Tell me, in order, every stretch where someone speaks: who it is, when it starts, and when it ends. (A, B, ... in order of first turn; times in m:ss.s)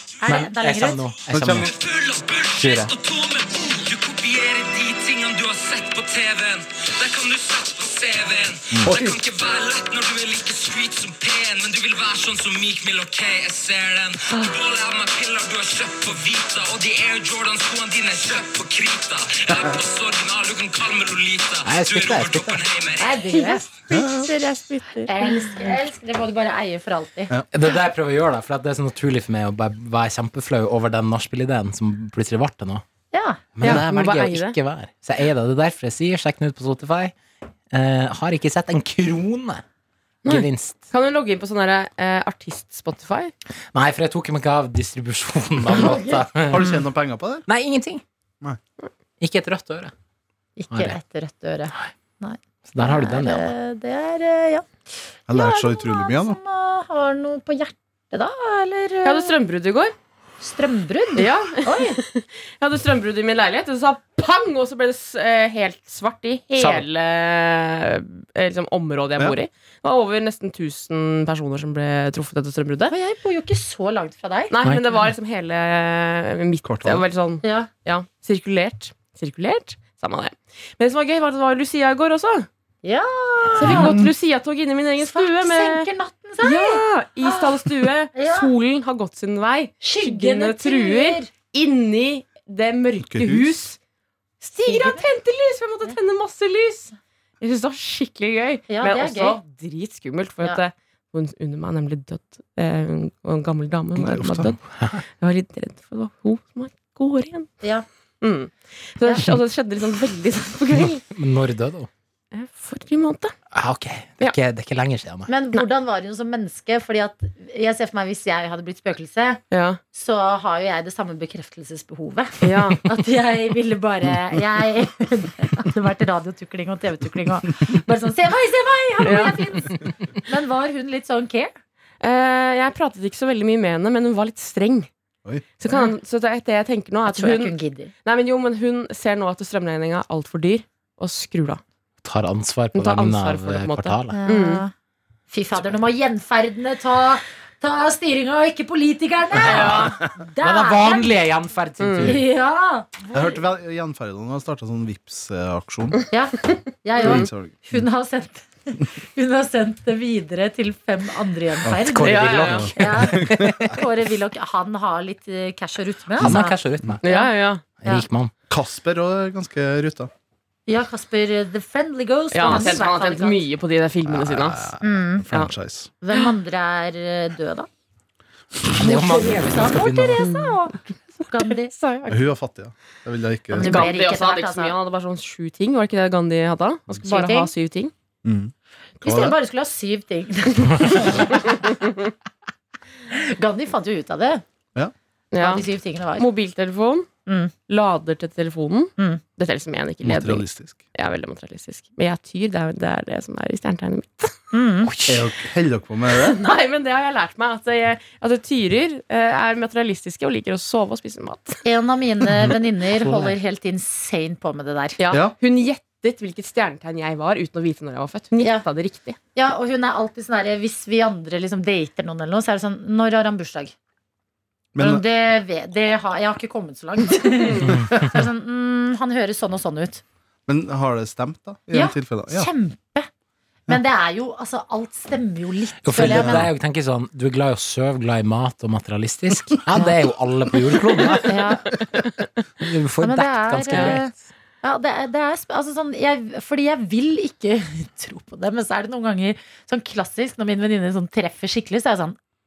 0:00.2-0:01.0 A
0:00.2-0:01.7 B
0:01.3-0:01.7 C
0:01.6-0:23.2 D
0:02.6-0:02.9 B
0:08.8-0:09.1 C
0:21.6-0:22.6 B
0:23.0-0:23.7 A
0:23.3-0:25.8 E
0:23.9-0:24.3 C
0:25.0-0:27.3 A
0:27.5-0:32.8 B
0:33.1-0:33.6 A
0:33.6-0:37.1 B
0:33.6-0:34.6 E
0:37.7-0:39.6 B
0:40.2-0:43.3 E
0:40.2-0:40.9 B
0:43.7-0:46.7 B
0:46.4-0:47.4 C
0:47.5-0:48.0 B
0:49.2-0:49.9 B
0:50.6-0:54.7 A
0:50.7-0:51.0 B
0:52.7-0:53.5 B
0:55.3-0:56.4 C
0:55.3-0:59.3 A
0:59.0-0:59.9 E
1:00.4-1:02.0 A
1:01.2-1:12.9 E
1:06.6-1:06.8 B
1:12.9-1:14.5 A
1:14.5-1:22.5 E
1:16.6-1:17.0 C
1:17.4-1:17.7 A
1:22.8-1:24.0 A
1:23.6-1:25.9 E
1:23.6-1:24.1 C
1:25.0-1:28.5 A
1:26.4-1:33.8 E
1:29.8-1:31.3 A
1:33.0-1:33.5 C
1:34.4-1:44.6 E
1:34.6-1:35.0 A
1:38.7-1:39.4 A
1:44.0-1:44.5 C
1:44.7-1:45.0 B
1:45.2-1:47.5 E
1:48.2-1:51.0 E
1:49.0-1:49.3 A
1:51.1-1:51.9 B
1:52.3-1:53.3 E
1:53.5-1:55.3 B
1:55.3-1:59.4 A
1:59.5-1:59.8 E
1:59.9-2:11.5 A
2:02.4-2:02.8 E
2:09.0-2:09.5 E
2:12.0-2:14.9 E
2:15.6-2:21.6 E
2:17.1-2:17.9 A
2:22.0-2:24.2 B
2:22.7-2:24.6 E
2:24.1-2:24.7 A
2:25.3-2:31.1 A
2:29.4-2:30.0 E
2:29.5-2:32.2 B
2:31.8-2:32.1 E
2:32.0-2:33.2 A
2:33.1-2:36.0 C
2:36.1-2:48.0 A
2:37.0-2:37.8 C
2:37.0-2:37.3 E
2:41.7-2:43.7 B
2:42.0-2:42.7 E
2:42.4-2:43.7 C
2:46.2-2:47.0 B
2:46.2-2:47.0 C
2:47.0-2:47.6 E
2:47.8-2:48.3 B
2:48.5-2:50.1 C
2:50.7-2:53.4 A
2:52.3-2:54.7 E
2:54.0-2:55.9 C
2:54.8-2:55.2 A
2:56.0-2:57.7 A
2:58.7-3:00.3 B
2:58.8-3:01.7 A
3:00.2-3:00.6 E
3:01.5-3:02.2 E
3:02.1-3:03.9 C
3:03.5-3:04.7 A
3:03.6-3:07.9 E
3:07.0-3:07.5 A
3:08.2-3:09.4 C
3:09.0-3:11.6 A
3:13.1-3:14.4 A
3:15.3-3:15.6 E
3:15.4-3:16.3 A
3:16.2-3:17.1 E
3:17.2-3:17.5 A
3:17.7-3:24.4 E
3:20.0-3:20.8 C
3:24.5-3:24.9 A
3:24.8-3:25.2 B
3:25.1-3:26.4 C
3:26.2-3:31.6 E
3:31.6-3:35.0 A
3:33.0-3:33.3 B
3:35.0-3:39.2 E
3:39.3-3:43.7 A
3:44.7-3:45.0 C
3:44.8-3:50.0 A
3:50.5-3:52.5 C
3:51.7-3:53.1 A
3:53.7-3:56.5 A
3:55.8-4:01.4 B
3:56.0-3:56.5 C
4:01.2-4:01.8 A
4:02.6-4:04.2 B
4:03.0-4:12.2 A